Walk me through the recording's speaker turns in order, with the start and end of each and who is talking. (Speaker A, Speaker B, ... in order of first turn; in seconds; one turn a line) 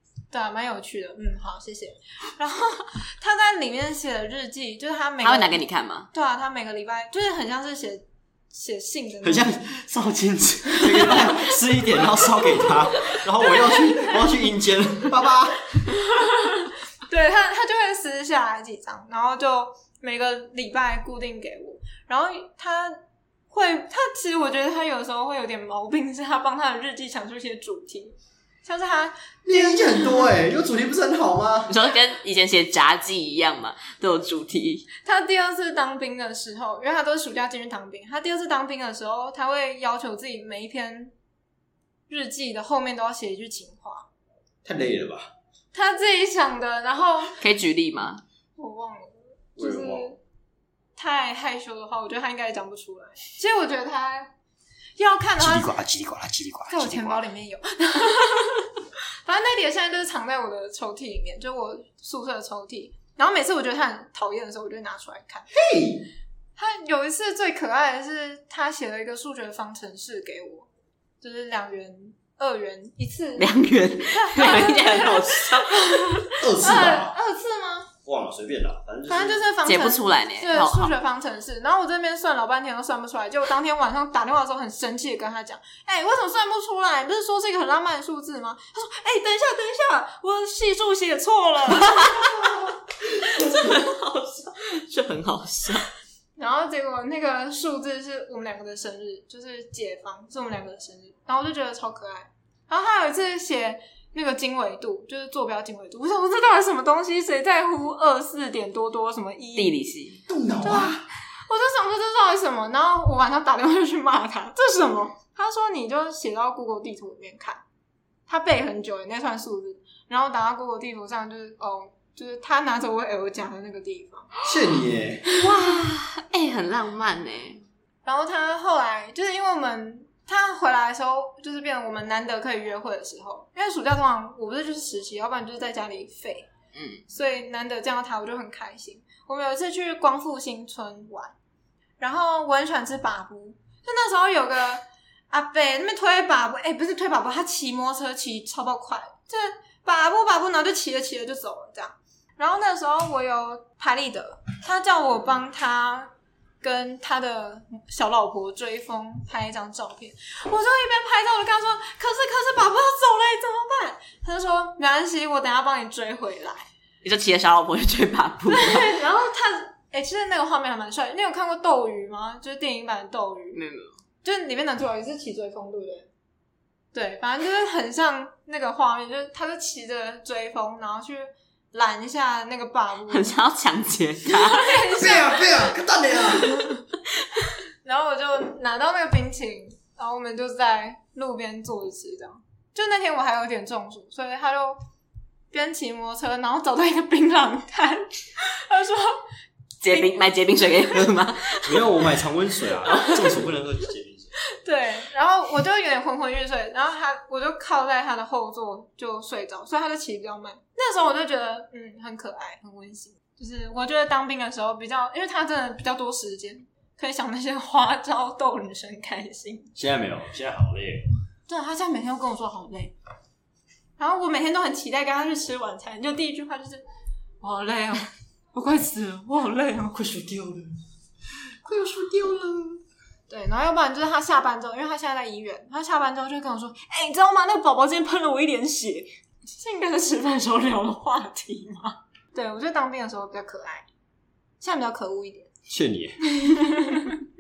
Speaker A: 0.3-9.6
Speaker B: 5.2-6.1
Speaker C: 9.2-15.8
Speaker A: 11.0-11.4
Speaker A: 13.5-14.2
Speaker A: 16.1-30.3
Speaker C: 29.4-31.7
Speaker B: 31.7-34.9
Speaker A: 35.0-41.1
Speaker A: 42.1-44.1
Speaker C: 44.6-45.3
Speaker A: 45.7-47.4
Speaker B: 47.4-48.2
Speaker A: 48.6-50.2
Speaker C: 49.6-50.1
Speaker A: 51.0-54.3
Speaker A: 55.0-55.7
Speaker C: 55.4-57.2
Speaker A: 56.7-65.5
Speaker C: 65.5-66.1
Speaker A: 66.6-70.7
Speaker A: 71.2-73.5
Speaker B: 73.4-76.3
Speaker A: 74.1-77.9
Speaker C: 76.4-77.2
Speaker C: 78.0-79.4
Speaker A: 79.1-92.7
Speaker B: 79.6-80.9
Speaker B: 91.8-92.4
Speaker B: 93.2-95.9
Speaker A: 96.4-109.8
Speaker B: 109.6-110.2
Speaker C: 110.3-111.1
Speaker A: 110.6-117.6
Speaker A: 118.3-124.3
Speaker C: 124.4-125.3
Speaker B: 125.3-127.6
Speaker A: 128.1-136.5
Speaker B: 136.7-137.0
Speaker A: 137.1-141.3
Speaker A: 142.0-166.7
Speaker B: 167.0-168.9
Speaker A: 168.4-173.6
Speaker B: 173.6-173.9
Speaker A: 174.2-176.1
Speaker A: 176.9-183.3
Speaker B: 183.1-184.9
Speaker A: 184.3-186.8
Speaker C: 184.9-186.7
Speaker A: 187.8-194.8
Speaker A: 195.5-199.2
Speaker B: 199.8-202.0
Speaker C: 201.7-204.3
Speaker A: 202.9-203.2
Speaker A: 204.6-219.7
Speaker C: 219.7-221.1
Speaker A: 221.5-222.9
Speaker A: 224.0-226.8
Speaker A: 227.4-230.0
Speaker C: 229.9-230.8
Speaker C: 231.6-232.8
Speaker A: 233.3-243.9
Speaker A: 244.6-245.5
Speaker C: 245.7-246.2
Speaker A: 246.2-247.2